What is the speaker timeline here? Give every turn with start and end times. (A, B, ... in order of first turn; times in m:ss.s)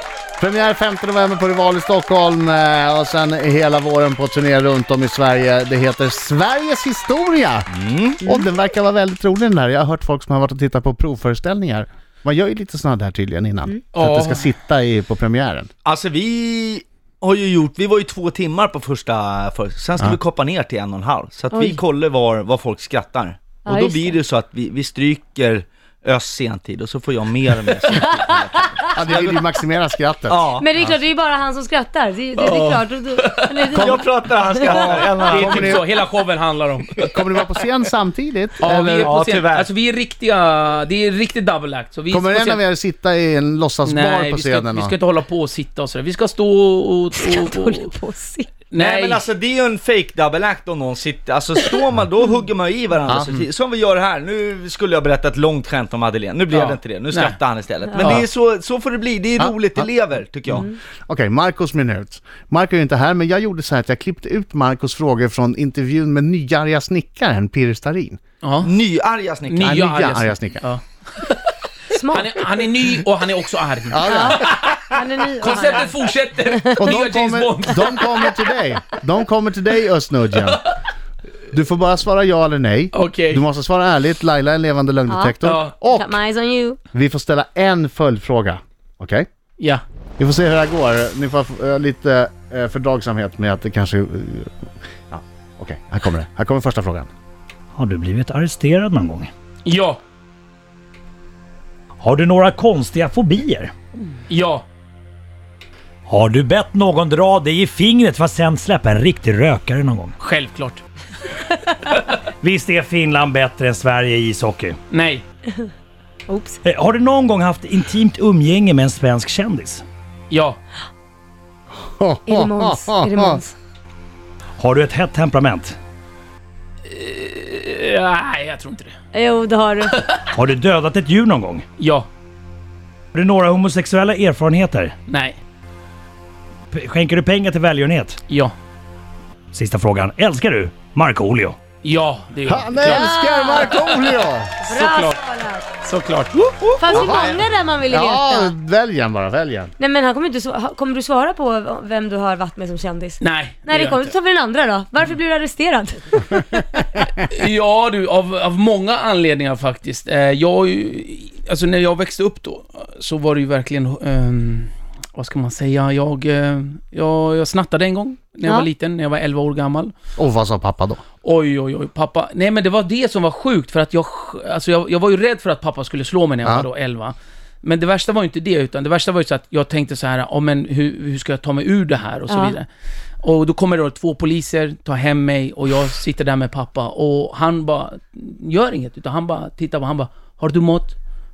0:00.4-0:07.7 A
0:07.7-0:08.2 B
0:08.2-0:08.5 C
0:08.2-0:15.7 A
0:13.9-0:14.5 D
0:15.8-0:29.4 B
0:21.5-0:21.8 C
0:23.6-0:24.2 C
0:27.9-0:29.0 C
0:29.0-0:30.9 A
0:30.3-0:30.7 B
0:30.6-0:35.5 C
0:32.4-0:32.8 B
0:33.2-0:33.9 D
0:33.7-0:35.8 B
0:34.7-0:37.2 D
0:35.3-0:35.8 A
0:37.1-0:39.1 A
0:38.6-0:42.6 D
0:39.0-0:39.7 B
0:42.1-0:45.0 A
0:43.9-0:47.9 D
0:47.2-0:48.6 C
0:48.7-0:49.2 D
0:48.8-1:00.7 B
0:53.1-0:53.5 D
0:56.5-0:58.3 D
0:57.9-0:58.2 C
0:59.4-1:08.2 A
1:00.5-1:00.8 C
1:08.4-1:08.7 D
1:08.6-1:10.0 B
1:09.5-1:11.5 D
1:09.6-1:10.6 A
1:11.9-1:12.4 C
1:12.1-1:14.9 D
1:13.9-1:14.5 A
1:14.0-1:15.9 C
1:15.4-1:18.4 D
1:16.5-1:16.9 C
1:16.8-1:20.7 A
1:21.5-1:26.2 A
1:22.9-1:23.4 D
1:25.1-1:26.8 C
1:25.4-1:25.8 D
1:26.9-1:29.3 A
1:30.2-1:37.1 A
1:37.8-1:39.3 E
1:39.6-1:40.0 D
1:42.0-1:43.7 E
1:44.3-1:44.6 D
1:46.1-1:50.1 E
1:50.2-1:51.4 D
1:52.4-1:54.8 E
1:54.9-1:55.2 D
1:56.3-1:56.6 C
1:56.6-1:59.8 E
2:00.3-2:00.6 D
2:01.9-2:03.4 A
2:02.3-2:03.5 C
2:04.6-2:05.8 E
2:06.9-2:09.0 D
2:09.1-2:10.0 C
2:09.9-2:10.2 D
2:10.3-2:11.6 E
2:11.8-2:12.1 D
2:13.1-2:14.9 E
2:15.1-2:15.4 D
2:16.7-2:18.2 E
2:18.3-2:18.5 D
2:19.5-2:21.6 E
2:21.8-2:23.1 D
2:22.5-2:24.6 A
2:22.8-2:24.1 C
2:24.6-2:25.7 C
2:24.7-2:25.2 D
2:25.8-2:26.5 D
2:26.8-2:27.4 B
2:26.8-2:28.5 C
2:26.9-2:27.4 A
2:27.9-2:29.7 A
2:29.8-2:36.9 C
2:33.2-2:34.1 D
2:37.2-2:49.9 D
2:50.2-2:51.0 A
2:51.2-3:02.7 D
3:02.3-3:02.6 C
3:03.2-3:11.0 D